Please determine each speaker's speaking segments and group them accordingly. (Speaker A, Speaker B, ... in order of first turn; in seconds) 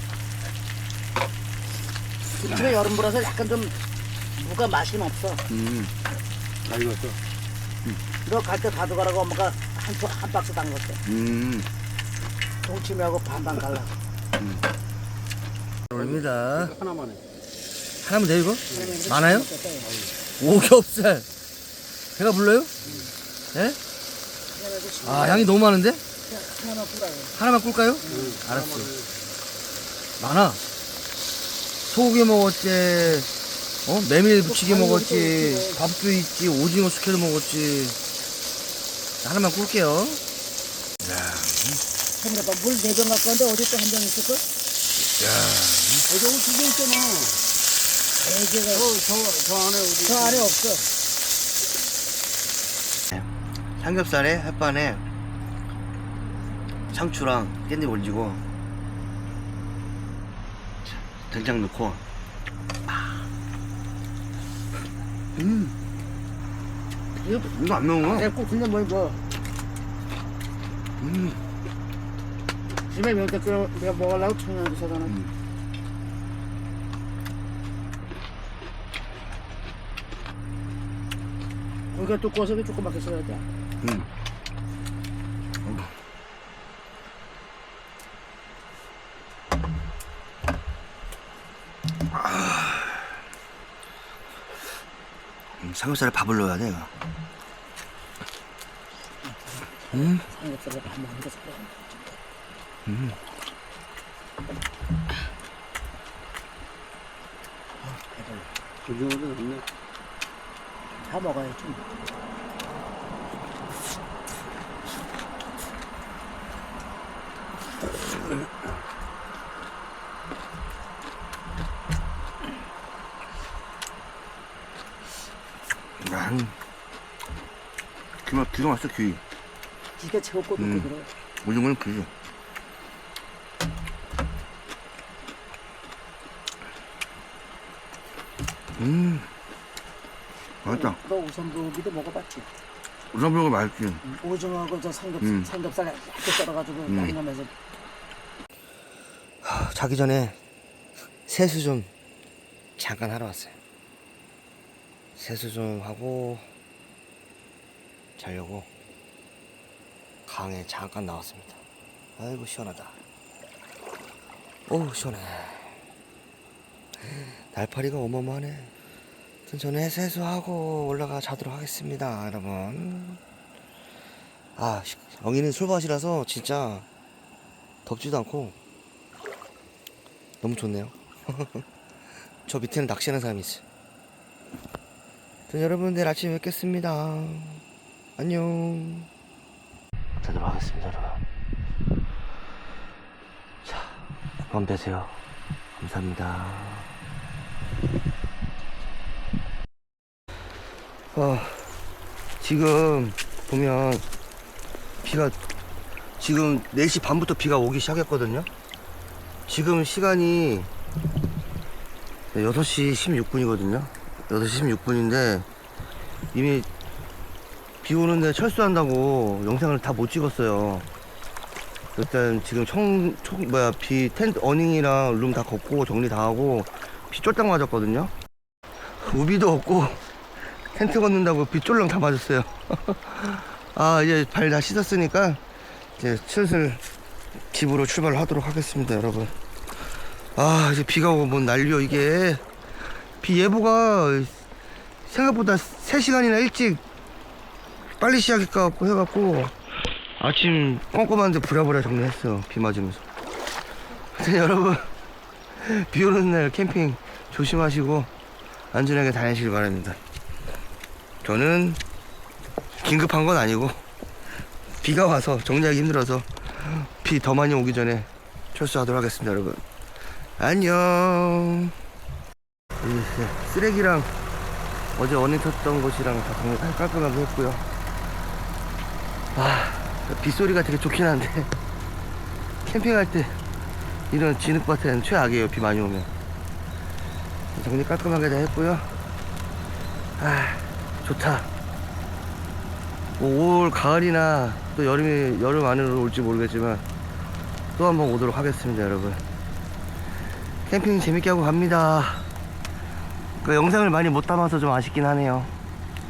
Speaker A: 2.4-3.7, 4.3-5.4, 8.2-11.0, 12.6-13.9, 18.7-19.9, 24.5-25.5, 26.3-27.4, 34.4-35.8, 42.2-44.4, 48.2-49.0, 50.0-50.9, 67.2-69.2, 72.9-75.1, 81.9-83.4, 99.2-102.0, 107.8-108.5, 111.0-111.8, 130.0-131.1, 140.7-142.5, 144.0-147.5
Speaker B: 5.5-5.9, 11.1-11.7, 15.9-16.8, 18.0-19.5, 20.4-21.3, 22.1-22.7, 25.0-26.0, 27.4-28.9, 30.2-30.6, 31.9-33.3, 33.9-38.0, 39.2-40.2, 41.0-41.8, 45.2-46.1, 53.8-55.0, 56.9-58.4, 60.9-62.0, 65.3-65.7, 67.5-68.3, 71.0-71.4, 83.8-84.1, 85.6-85.9, 92.1-93.1, 95.6-96.9, 99.9-100.2, 102.8-103.2, 126.0-126.5, 128.2-129.2, 130.6-130.9, 131.4-132.1, 138.8-139.3, 140.6-141.0, 143.1-144.0, 145.2-145.5, 146.9-147.1, 149.4-150.4, 151.3-151.9, 152.8-153.6, 155.2-156.4, 158.2-158.7, 160.2-161.6, 162.2-162.9, 164.7-165.8, 167.0-168.7, 169.5-173.2, 174.6-176.8, 177.8-178.5, 180.4-181.7, 182.4-183.6, 185.5-187.6, 188.2-189.1, 190.2-191.2, 193.6-195.2, 195.8-196.9, 201.1-201.7, 202.4-204.0, 205.0-205.3, 206.2-208.5, 209.5-210.7, 212.3-215.4, 216.3-216.7, 217.8-220.9, 221.9-228.1, 229.0-230.0, 230.7-235.4, 236.0-236.8, 237.5-239.3, 240.3-242.4, 243.2-244.4, 245.1-246.8, 248.0-249.5, 250.2-253.0, 254.1-254.9, 255.6-258.1, 258.7-260.0, 261.2-261.8, 262.7-263.8, 264.8-269.6, 270.4-271.7, 272.8-274.1, 274.9-277.6, 279.3-281.5, 282.6-283.4, 284.1-286.1, 287.5-288.9, 290.2-291.5, 293.2-296.8, 297.7-299.2, 300.6-302.3, 303.4-305.5
Speaker C: 6.6-7.2, 16.6-17.2, 28.1-29.0, 46.1-47.4, 48.8-50.5, 108.8-109.6